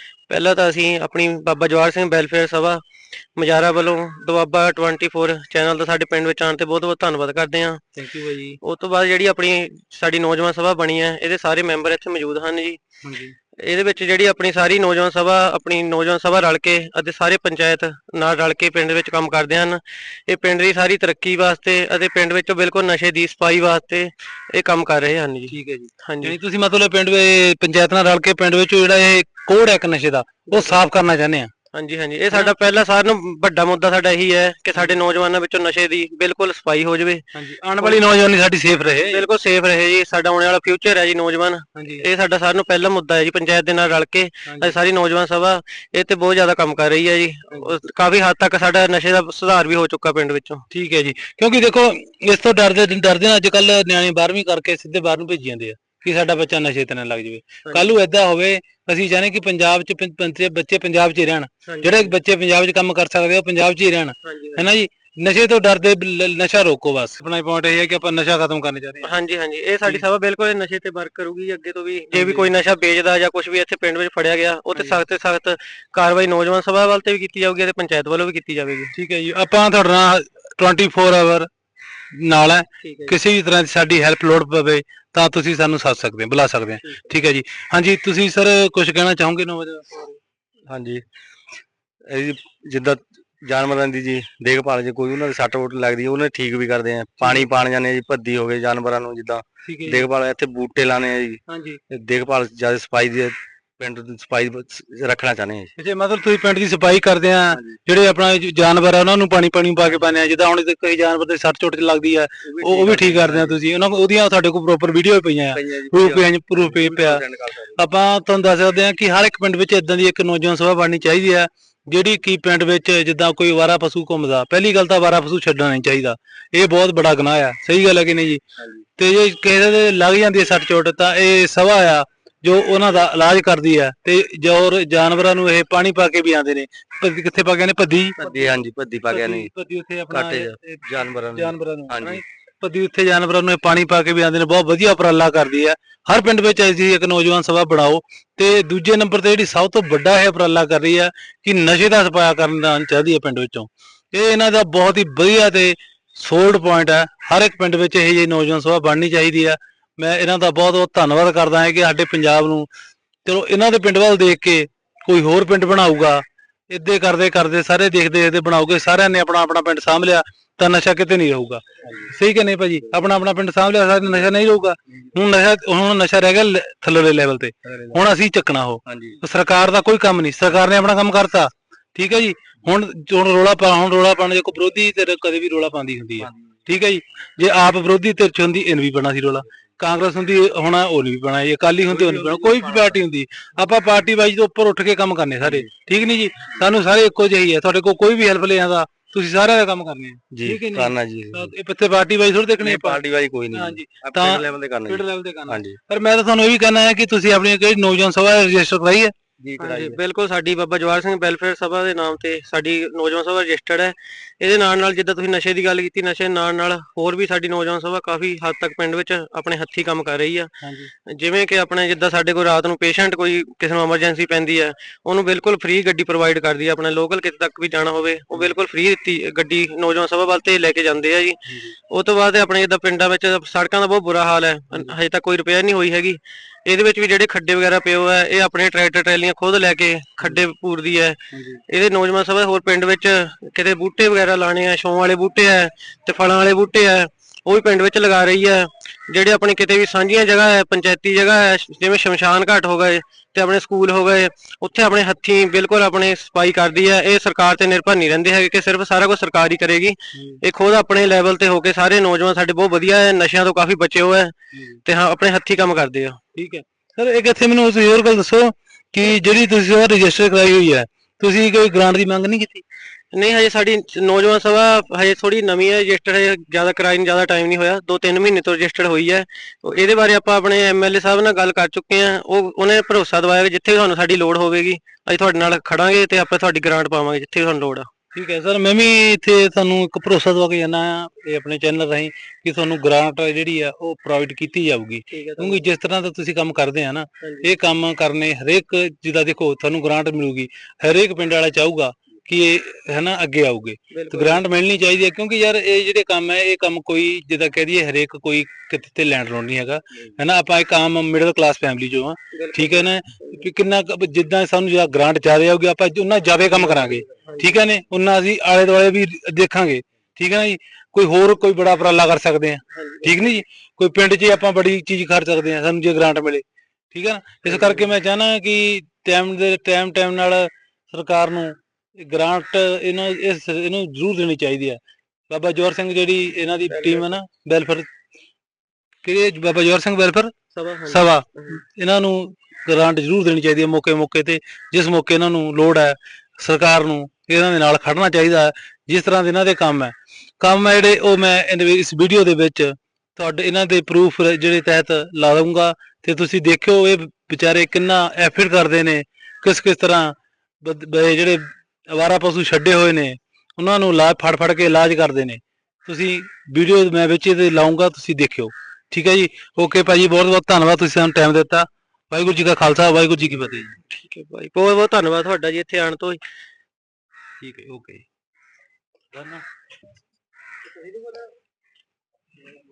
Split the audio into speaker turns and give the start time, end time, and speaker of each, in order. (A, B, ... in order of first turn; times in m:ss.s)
0:00.3-0:02.8 A
0:03.4-0:07.8 A
0:08.0-0:08.6 B
0:08.6-0:12.8 A
0:13.0-0:13.4 B
0:13.6-0:26.4 A
0:25.5-0:31.5 B
0:30.5-0:30.8 A
0:31.7-0:37.2 A
0:37.4-0:39.3 B
0:37.8-0:38.0 A
0:39.0-0:50.6 A
0:41.8-0:42.1 B
0:44.5-0:44.8 B
0:50.7-1:09.2 B
0:57.6-0:57.9 A
1:01.7-1:02.2 A
1:04.2-1:04.7 A
1:09.0-1:18.9 A
1:12.1-1:12.5 B
1:14.8-1:15.0 B
1:19.0-1:21.5 B
1:22.1-1:30.1 B
1:22.8-1:23.2 A
1:30.7-1:31.0 C
1:32.1-1:45.7 C
1:37.2-1:37.5 B
1:39.6-1:40.1 B
1:41.5-1:41.8 B
1:45.8-1:57.2 B
1:47.5-1:47.8 C
1:52.5-1:53.6 C
1:55.5-1:57.8 C
1:57.8-2:08.4 B
2:09.0-2:18.3 B
2:18.2-2:19.5 C
2:18.3-2:18.6 A
2:19.1-2:42.7 B
2:20.1-2:22.2 C
2:43.2-3:23.0 B
2:57.7-2:58.0 C
2:58.9-2:59.2 C
3:11.9-3:13.0 C
3:15.4-3:15.7 C
3:20.3-3:21.5 C
3:22.6-3:25.8 C
3:23.5-3:29.2 B
3:29.4-3:30.0 C
3:29.6-3:40.5 A
3:40.6-3:40.9 B
3:41.1-4:24.3 A
3:51.5-3:51.8 B
4:01.3-4:01.6 B
4:20.2-4:20.4 B
4:24.5-4:24.8 B
4:24.8-4:26.2 A
4:26.4-4:32.6 B
4:33.1-4:47.9 A
4:48.2-5:34.8 B
4:55.1-4:55.7 A
4:57.2-4:57.5 A
5:03.9-5:04.4 A
5:12.3-5:13.4 A
5:16.5-5:17.5 A
5:22.7-5:23.4 A
5:27.5-5:27.9 A
5:35.3-5:37.9 B
5:36.7-5:37.1 A
5:39.0-5:40.3 B
5:40.5-5:41.6 A
5:40.9-6:13.8 B
6:13.8-6:16.2 A
6:17.4-6:18.0 B
6:19.1-6:19.4 B
6:20.8-6:21.3 A